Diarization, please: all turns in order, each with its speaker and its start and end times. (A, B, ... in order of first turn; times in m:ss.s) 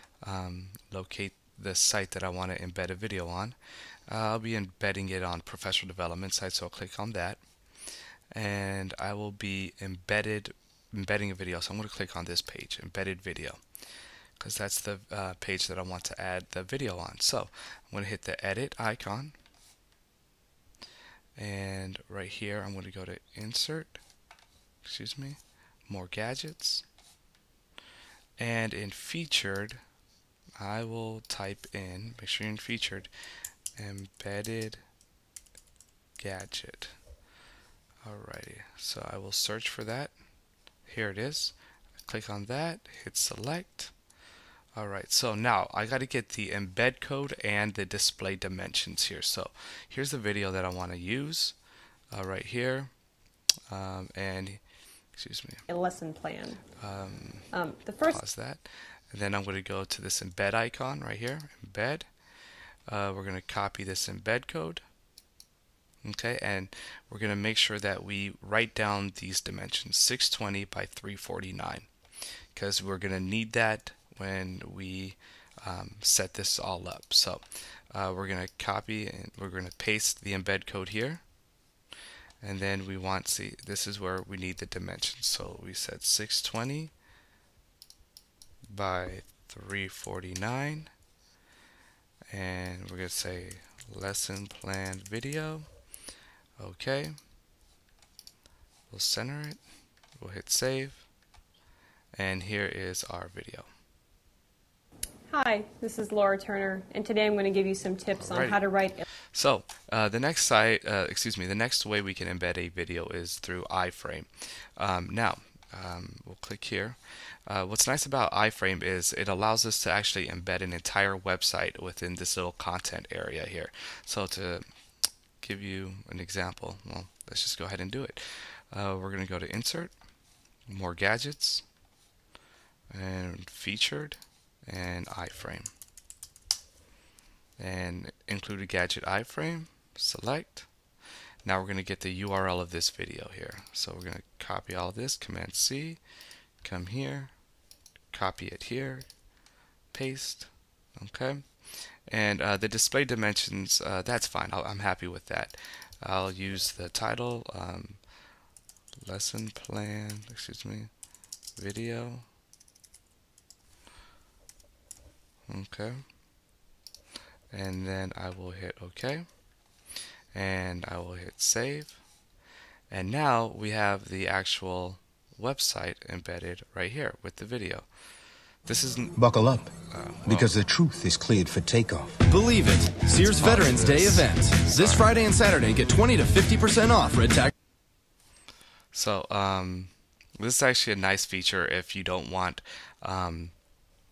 0:00.2-0:03.6 A
0:04.1-0:07.4 A
0:08.3-0:13.6 A
0:14.4-0:19.4 A
0:21.4-0:24.0 A
0:24.8-0:26.8 A
0:28.4-0:29.8 A
0:30.6-0:33.1 A
0:33.8-0:34.8 A
0:36.2-0:37.0 A
0:38.0-0:40.1 A
0:40.9-0:41.5 A
0:42.1-0:43.9 A
0:44.8-0:51.6 A
0:52.1-0:52.9 A
0:53.7-0:54.6 A
0:55.1-0:55.6 A
0:55.7-0:56.6 B
0:56.8-0:57.5 A
0:57.5-0:58.2 B
0:58.1-1:02.1 A
1:02.9-1:04.8 A
1:06.0-1:11.9 A
1:12.5-1:21.2 A
1:22.4-1:26.9 A
1:28.7-1:30.9 A
1:32.3-1:35.7 A
1:36.6-1:37.2 A
1:38.9-1:39.6 A
1:40.2-1:41.1 A
1:42.2-1:43.7 A
1:45.3-1:49.0 B
1:48.2-1:48.6 A
1:49.3-2:04.6 A
2:05.4-2:08.2 A
2:08.7-2:09.9 A
2:10.7-2:11.6 A
2:12.9-2:15.7 A
2:17.6-2:20.7 A
2:21.4-2:26.0 A
2:26.6-2:27.3 A
2:28.1-2:29.1 A
2:29.9-2:31.5 A
2:32.1-2:38.0 A
2:39.1-2:40.9 A
2:41.6-2:42.3 A
2:45.5-2:46.0 A
2:47.5-2:49.2 A
2:50.3-2:52.0 A
2:52.9-2:57.9 A
2:58.7-3:00.5 A
2:59.2-2:59.7 C
3:00.3-3:02.2 C
3:02.3-3:07.5 D
3:03.1-3:05.2 A
3:08.9-3:13.5 A